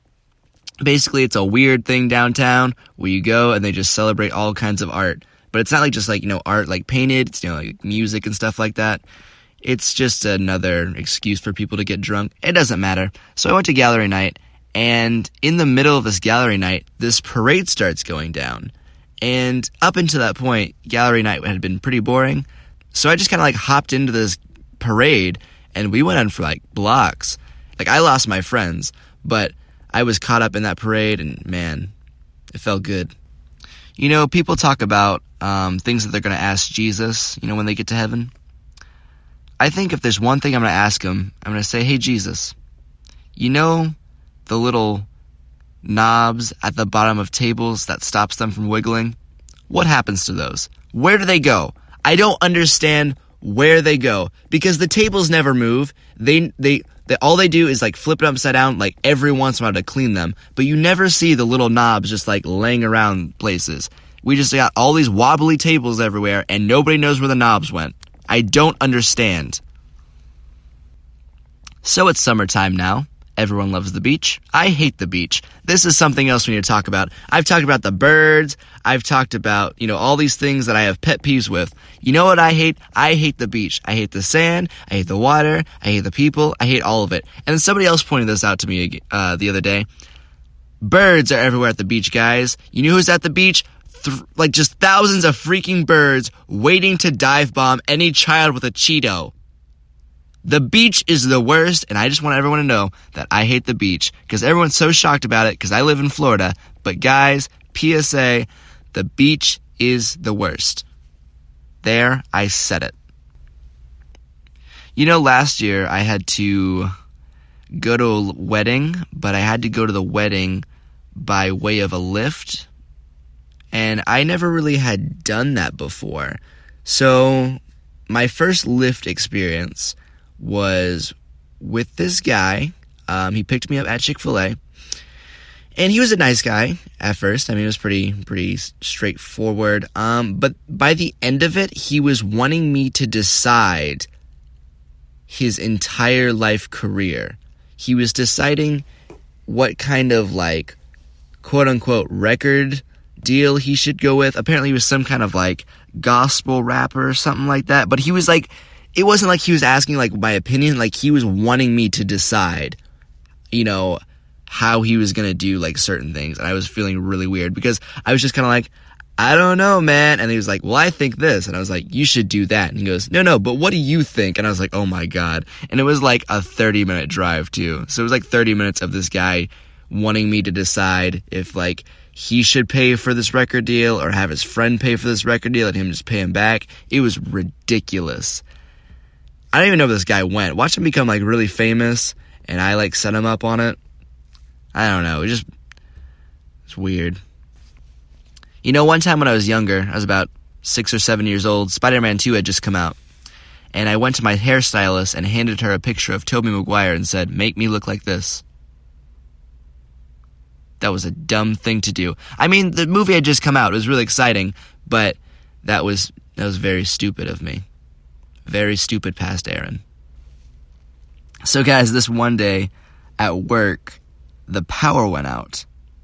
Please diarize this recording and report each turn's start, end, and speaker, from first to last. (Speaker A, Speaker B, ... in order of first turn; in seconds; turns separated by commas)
Speaker A: 0.8-9.0, Speaker A: 9.6-31.9, Speaker A: 32.5-33.1, Speaker A: 34.0-38.3, Speaker A: 39.6-42.5, Speaker A: 43.4-43.9, Speaker A: 44.5-45.1, Speaker A: 45.8-49.1, Speaker A: 49.7-69.6, Speaker A: 71.8-89.9, Speaker A: 90.8-99.3, Speaker A: 100.4-110.8, Speaker A: 111.8-112.9, Speaker A: 115.0-116.9, Speaker A: 117.7-122.7, Speaker A: 123.7-134.6, Speaker A: 135.8-144.1, Speaker A: 145.3-148.8, Speaker A: 149.5-150.8, Speaker A: 151.4-162.8, Speaker A: 163.5-188.4, Speaker A: 189.5-193.8, Speaker A: 194.7-195.4, Speaker A: 196.7-197.2, Speaker A: 198.6-203.0, Speaker A: 203.7-208.4, Speaker A: 210.8-217.6, Speaker A: 218.4-219.8, Speaker A: 221.4-225.6